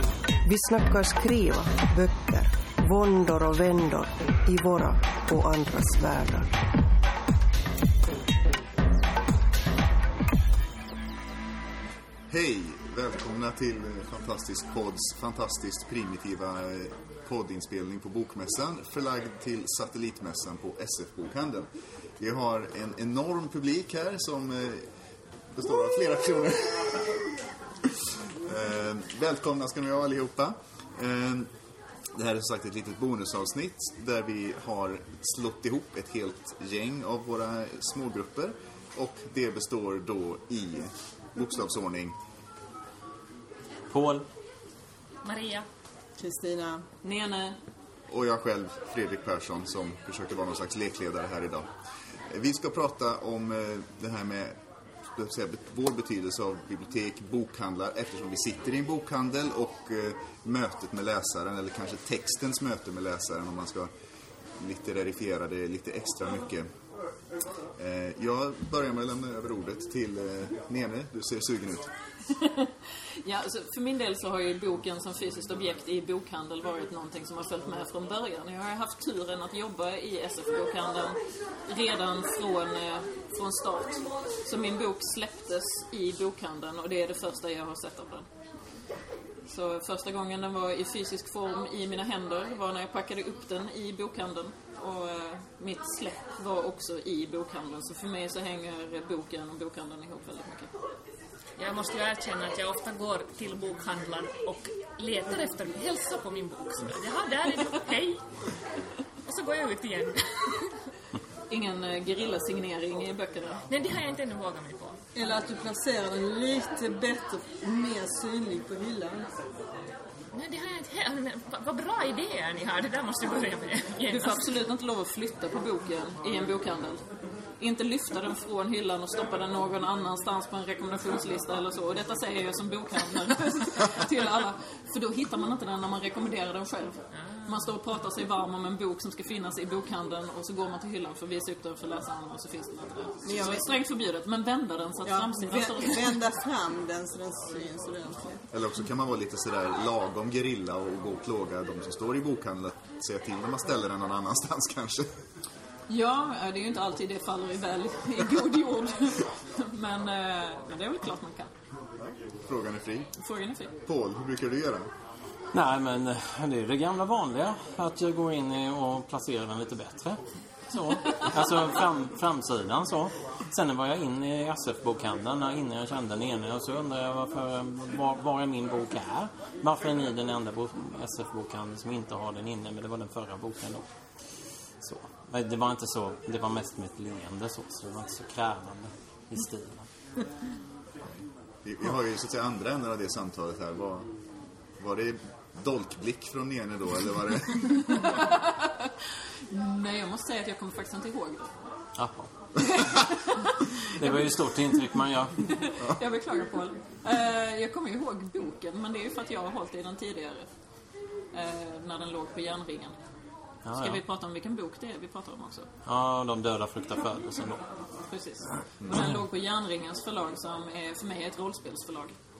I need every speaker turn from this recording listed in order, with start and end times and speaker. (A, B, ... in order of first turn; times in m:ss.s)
0:00.4-0:06.5 A
0:12.3-0:21.7 B
0:22.2-0:24.8 B
0:25.5-0:27.2 B
0:28.4-0:31.5 B
0:32.1-0:42.2 B
0:43.9-0:44.2 C
0:45.2-0:45.6 D
0:46.2-0:46.8 E
0:47.0-0:47.6 F
0:48.1-0:51.7 B
0:52.3-0:54.6 B
0:55.1-1:03.9 B
1:04.6-1:06.7 B
1:07.8-1:11.9 B
1:12.3-1:12.7 F
1:13.2-1:28.3 F
1:29.5-1:40.7 F
1:41.6-1:48.2 D
1:49.2-1:50.8 D
1:51.5-1:53.6 F
1:53.7-1:55.0 D
1:55.1-1:59.3 E
2:00.3-2:04.6 D
2:04.1-2:07.0 F
2:07.6-2:26.2 F
2:23.2-2:23.6 E
2:25.0-2:28.5 E
2:28.5-2:35.1 B
2:35.9-2:41.5 F
2:42.0-2:43.1 B
2:43.2-2:43.7 F
2:43.9-2:44.9 B
2:45.5-3:03.8 C
3:04.8-3:09.8 C
3:11.6-3:14.1 B
3:14.8-3:17.8 B
3:18.0-3:18.9 F
3:19.5-3:21.5 F
3:22.0-3:22.3 C
3:22.8-3:23.5 F
3:23.9-3:25.5 C
3:25.5-3:30.5 F
3:31.3-3:32.9 F
3:33.6-3:34.0 C
3:33.7-3:35.7 F
3:35.8-3:37.6 C
3:38.1-3:42.1 F
3:38.9-3:39.1 C